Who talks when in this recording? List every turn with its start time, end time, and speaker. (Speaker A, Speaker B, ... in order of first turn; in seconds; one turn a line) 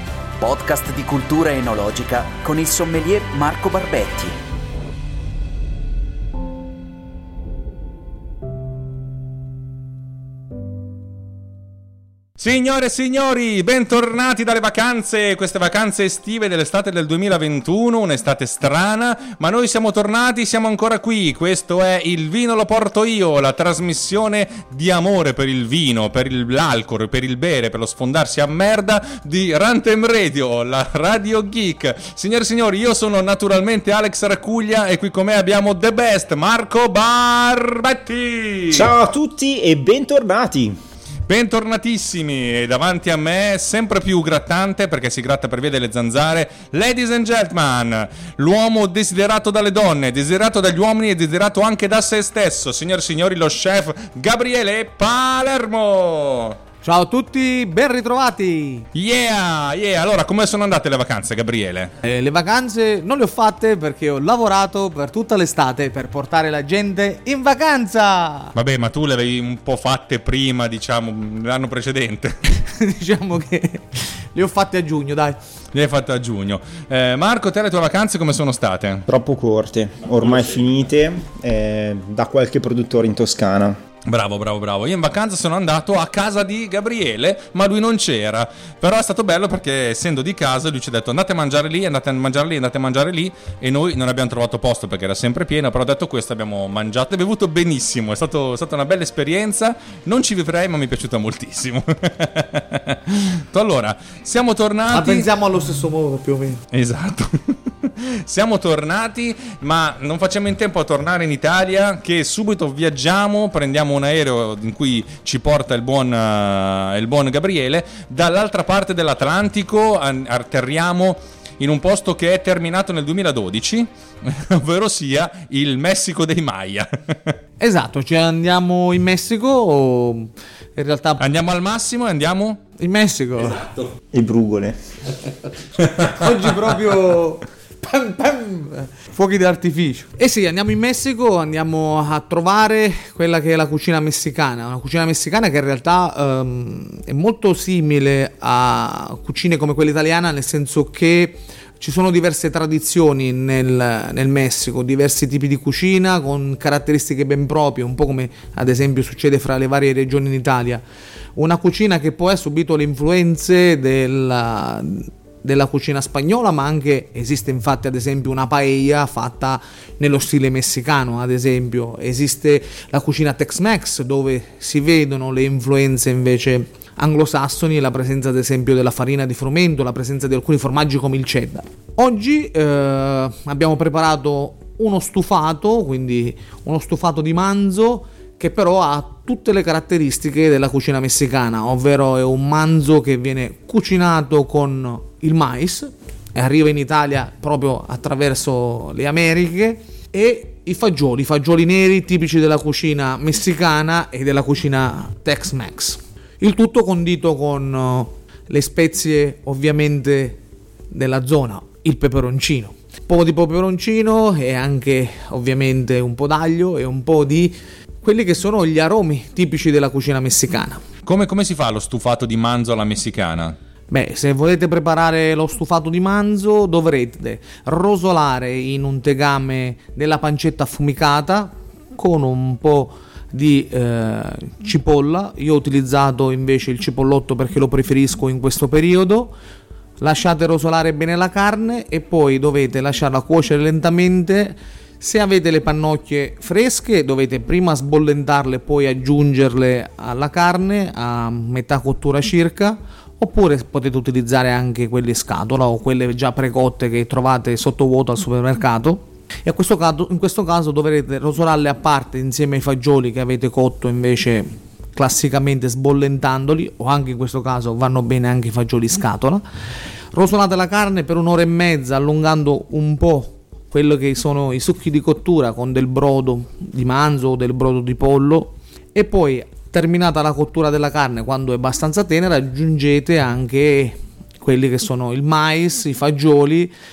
Speaker A: 0.4-4.4
Speaker B: 12.4-38.9
Speaker C: 38.7-40.8
Speaker B: 41.3-56.6
Speaker D: 56.8-58.9
Speaker B: 58.9-61.9
Speaker D: 62.0-68.5
Speaker B: 68.5-72.4
Speaker D: 72.7-75.4
Speaker B: 75.7-79.1
Speaker C: 79.1-83.8
Speaker B: 84.1-105.3
Speaker D: 104.9-106.6
Speaker B: 106.7-127.4
Speaker D: 127.6-131.2
Speaker B: 131.2-132.6
Speaker D: 132.8-133.7
Speaker C: 134.1-134.8
Speaker B: 135.8-136.2
Speaker D: 136.0-160.8
Speaker D: 161.4-210.4
Speaker D: 210.9-220.8
Speaker B: 221.1-223.6
Speaker D: 223.9-239.3
Speaker D: 240.0-269.4
Speaker D: 270.1-286.7